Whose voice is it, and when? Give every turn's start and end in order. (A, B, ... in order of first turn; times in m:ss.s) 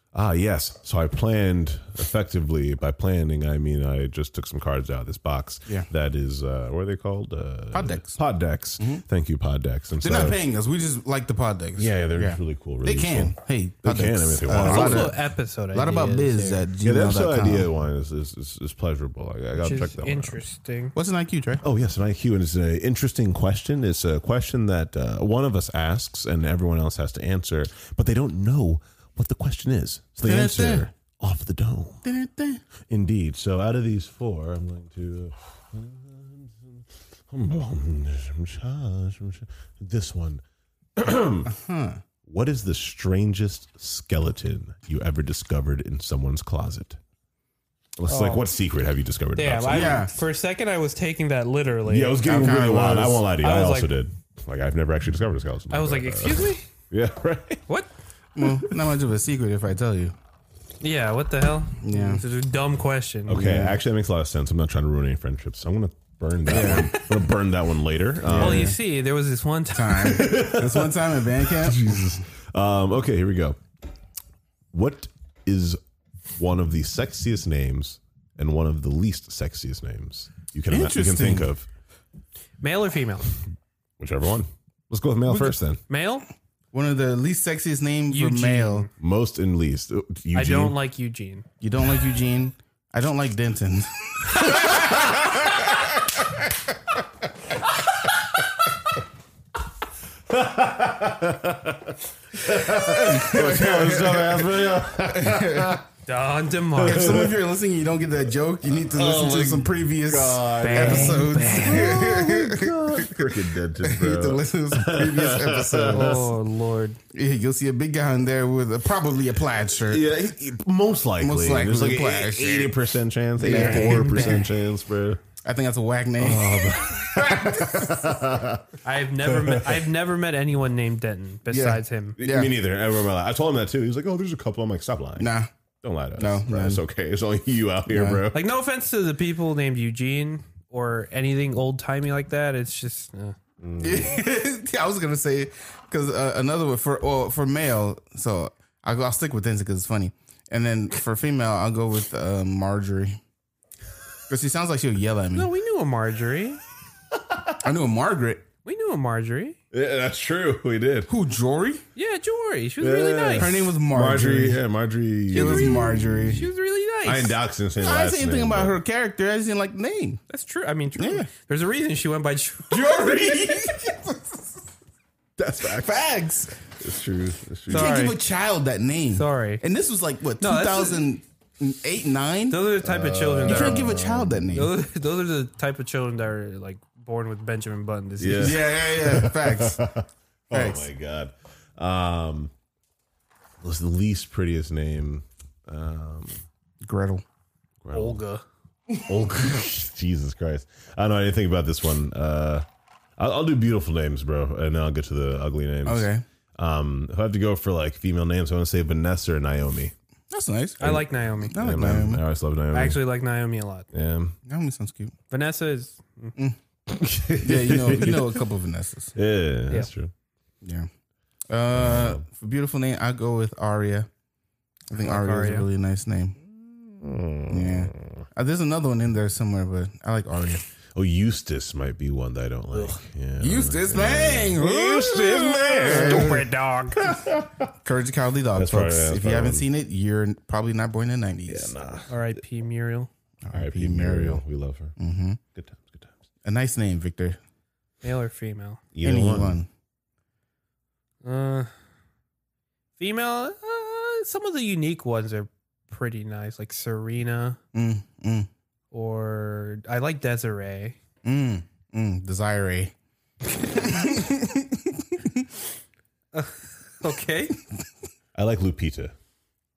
0:00.1-0:10.4 A
0:07.7-0:08.2 B
0:08.8-0:09.0 B
0:10.0-0:15.2 B
0:11.8-0:15.1 A
0:14.6-0:16.6 C
0:15.7-0:17.7 B
0:16.8-0:20.4 A
0:19.6-0:20.9 C
0:20.9-0:21.6 B
0:21.6-0:32.0 A
0:30.2-0:30.9 B
0:32.0-0:32.6 B
0:32.9-0:40.4 A
0:41.0-0:41.5 A
0:41.4-0:42.0 B
0:42.2-0:47.0 A
0:48.0-0:50.0 A
0:48.1-0:48.5 C
0:49.4-0:52.2 C
0:49.7-0:50.1 B
0:51.8-0:57.6 A
0:52.2-0:53.2 B
0:53.4-0:53.9 C
0:55.7-0:56.6 C
0:58.4-1:00.1 B
0:58.4-0:58.7 A
1:00.8-1:03.5 C
1:01.8-1:02.2 B
1:03.3-1:08.8 A
1:03.3-1:03.8 B
1:06.4-1:07.0 B
1:08.2-1:08.8 B
1:08.4-1:10.2 C
1:09.7-1:12.1 B
1:10.0-1:13.6 A
1:14.7-1:15.8 A
1:16.4-1:21.7 A
1:20.7-1:21.5 B
1:22.6-1:23.3 C
1:24.0-1:25.8 A
1:25.9-1:26.3 C
1:26.7-1:28.9 B
1:28.1-1:28.9 C
1:29.0-1:30.7 A
1:30.3-1:31.4 C
1:31.6-1:36.1 B
1:34.4-1:35.4 A
1:40.3-1:45.8 A
1:42.6-1:44.5 B
1:45.0-1:45.8 B
1:46.0-1:47.2 C
1:46.8-1:47.4 A
1:46.8-1:56.3 B
1:48.9-1:56.3 A
1:50.6-1:52.0 C
1:55.9-1:57.0 C
1:57.1-2:00.0 B
1:59.8-2:05.2 A
2:01.2-2:02.7 B
2:03.4-2:04.5 B
2:03.4-2:04.4 C
2:05.4-2:08.1 B
2:06.2-2:08.6 A
2:08.8-2:12.2 C
2:09.2-2:09.8 A
2:11.5-2:12.5 B
2:12.2-2:15.3 A
2:15.2-2:15.5 B
2:15.8-2:18.4 A
2:16.2-2:16.8 B
2:17.9-2:18.2 B
2:18.3-2:23.4 C
2:23.6-2:24.1 A
2:23.8-2:33.2 B
2:34.3-2:35.5 B
2:35.3-2:36.6 C
2:37.1-2:37.5 A
2:37.6-2:38.4 B
2:38.6-2:39.6 C
2:39.7-2:41.1 A
2:41.1-2:41.8 B
2:42.0-2:43.5 C
2:42.8-2:46.4 A
2:43.4-2:44.6 B
2:45.3-2:46.5 B
2:45.3-2:47.4 C
2:47.0-2:48.8 A
2:47.8-2:50.2 B
2:50.3-2:53.3 C
2:50.9-2:51.3 B
2:52.7-2:54.4 B
2:55.4-2:55.9 A
2:55.6-2:56.6 B
2:56.7-2:57.9 A
2:57.7-3:02.7 B
2:57.7-2:58.2 C
2:59.1-2:59.6 C
3:00.4-3:01.0 C
3:02.5-3:03.9 C
3:02.8-3:04.5 A
3:03.4-3:04.7 B
3:04.5-3:08.6 C
3:08.2-3:12.5 A
3:08.4-3:09.8 B
3:10.5-3:10.8 B
3:13.6-3:16.4 A
3:16.8-3:17.2 B
3:17.8-3:18.2 A
3:17.9-3:18.4 C
3:19.0-3:22.6 A
3:23.2-3:29.9 A
3:25.8-3:26.2 B
3:30.3-3:32.2 B
3:30.8-3:31.6 C
3:30.8-3:33.0 A
3:32.7-3:33.9 C
3:33.9-3:34.3 A
3:34.5-3:35.1 B
3:35.3-3:36.3 C
3:36.9-3:38.4 A
3:37.4-3:39.2 B
3:39.2-3:40.1 A
3:40.6-3:40.9 B
3:41.5-3:44.1 B
3:41.7-3:42.2 A
3:44.9-3:46.4 B
3:45.0-3:45.7 C
3:46.5-3:48.2 A
3:47.5-3:50.6 B
3:50.9-3:57.7 A
3:53.4-3:56.5 B
3:55.8-3:57.1 C
3:57.8-4:01.7 B
3:58.5-3:59.6 A
4:01.5-4:02.4 A
4:02.1-4:03.1 C
4:03.4-4:04.4 B
4:03.5-4:04.9 A
4:05.0-4:05.4 B
4:05.6-4:06.1 A
4:06.4-4:07.4 B
4:08.0-4:08.8 C
4:08.9-4:09.6 A
4:09.0-4:09.7 B
4:11.2-4:11.7 C
4:13.0-4:17.6 C
4:17.7-4:18.5 B
4:18.9-4:21.0 C
4:21.2-4:22.9 B
4:23.6-4:25.4 B
4:26.3-4:27.6 C
4:28.3-4:29.1 A